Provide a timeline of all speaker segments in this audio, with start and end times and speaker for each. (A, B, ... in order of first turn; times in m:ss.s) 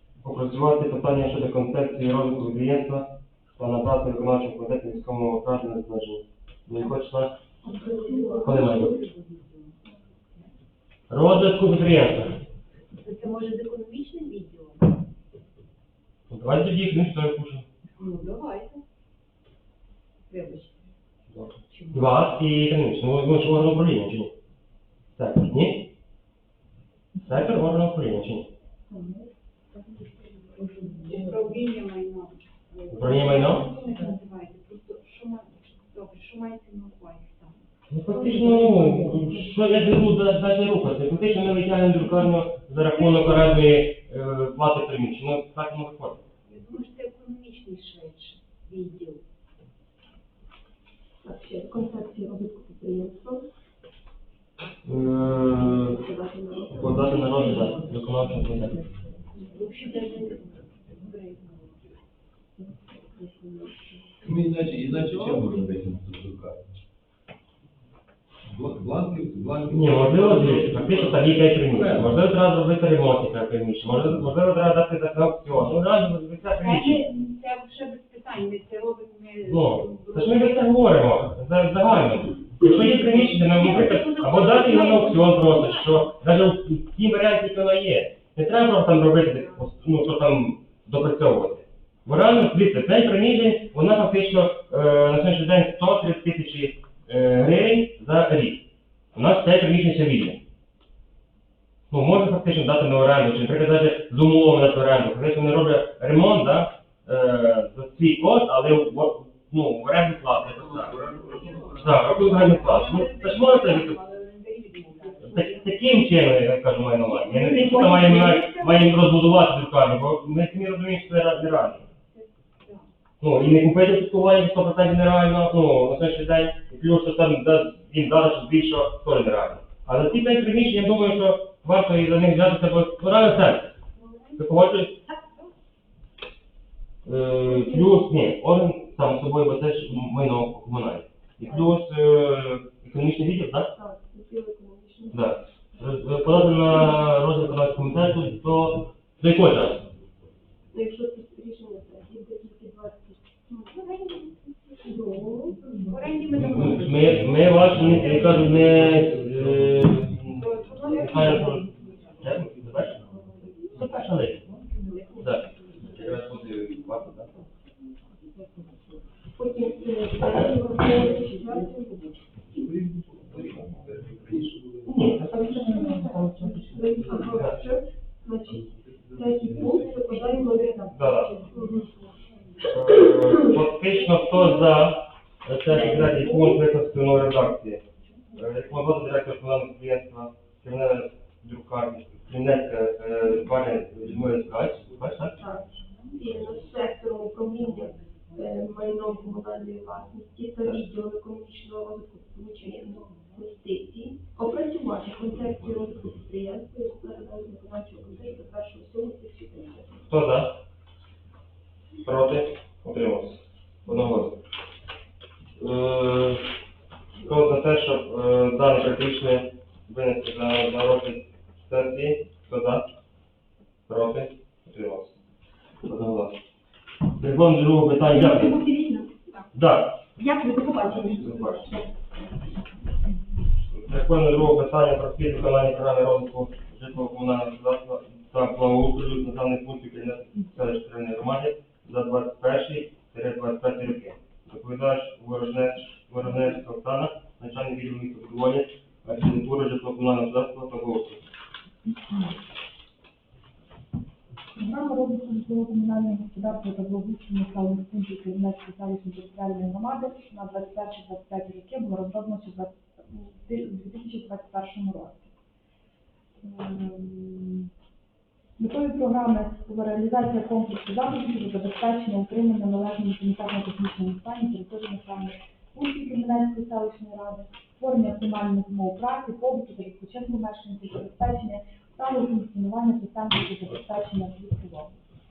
0:00.2-0:07.4 A
0:07.6-0:08.8 B
0:07.6-0:10.5 C
0:08.4-0:08.9 A
0:11.1-0:12.4 A
0:13.0-0:15.0 C
0:16.3-0:17.6 A
0:18.0-0:18.8 C
0:20.3-0:20.9 C
0:21.3-0:24.3 A
0:21.7-0:22.1 C
0:25.2-0:25.9 A
0:27.2-0:28.5 A
0:29.7-0:37.6 C
0:30.7-0:31.3 D
0:32.9-0:33.7 A
0:37.9-0:46.2 A
0:38.1-0:38.8 C
0:42.8-0:43.5 C
0:46.4-0:49.2 C
0:51.2-0:53.5 B
0:54.8-0:56.0 A
0:55.7-0:57.9 B
0:56.7-0:58.8 A
0:59.3-1:01.6 B
0:59.5-1:00.4 C
1:02.6-1:04.1 B
1:04.2-1:06.6 E
1:08.4-1:12.1 E
1:09.7-1:17.1 A
1:16.6-1:20.8 C
1:19.4-1:40.4 A
1:22.6-1:26.0 C
1:41.9-1:51.1 A
1:50.6-1:52.2 E
1:51.2-1:55.7 C
1:51.8-1:54.0 A
1:55.2-2:01.8 A
1:57.3-1:58.6 F
2:03.2-2:13.8 A
2:14.0-2:14.4 C
2:14.4-2:14.9 A
2:15.1-2:15.5 C
2:17.0-2:23.7 A
2:23.7-2:25.2 B
2:25.1-2:29.8 A
2:30.7-2:33.2 B
2:33.5-2:34.9 C
2:34.8-2:35.6 B
2:35.5-2:38.3 C
2:36.4-2:43.0 A
2:37.0-2:40.2 E
2:40.3-2:42.3 C
2:42.2-2:43.2 E
2:43.7-2:44.4 A
2:44.7-2:46.4 C
2:45.2-2:47.3 A
2:49.3-2:52.2 B
2:52.5-2:55.1 E
2:54.8-2:56.0 A
2:55.3-2:57.3 D
2:55.4-3:01.9 B
2:57.1-2:57.8 A
2:58.5-2:59.9 E
2:59.8-3:00.8 D
3:00.9-3:01.3 A
3:02.6-3:07.8 A
3:08.3-3:15.4 A
3:15.4-3:30.1 B
3:30.1-3:30.6 A
3:32.0-3:34.4 A
3:35.6-3:36.5 A
3:37.2-3:42.9 A
3:43.9-3:45.2 A
3:45.8-3:46.4 A
3:47.2-3:48.6 A
3:48.0-3:49.2 F
3:49.5-3:50.1 A
3:50.2-3:51.9 F
3:50.9-3:51.7 A
3:53.7-4:11.2 A
4:11.9-4:12.3 D
4:14.5-4:25.3 D
4:26.4-4:27.7 D
4:28.6-4:45.0 D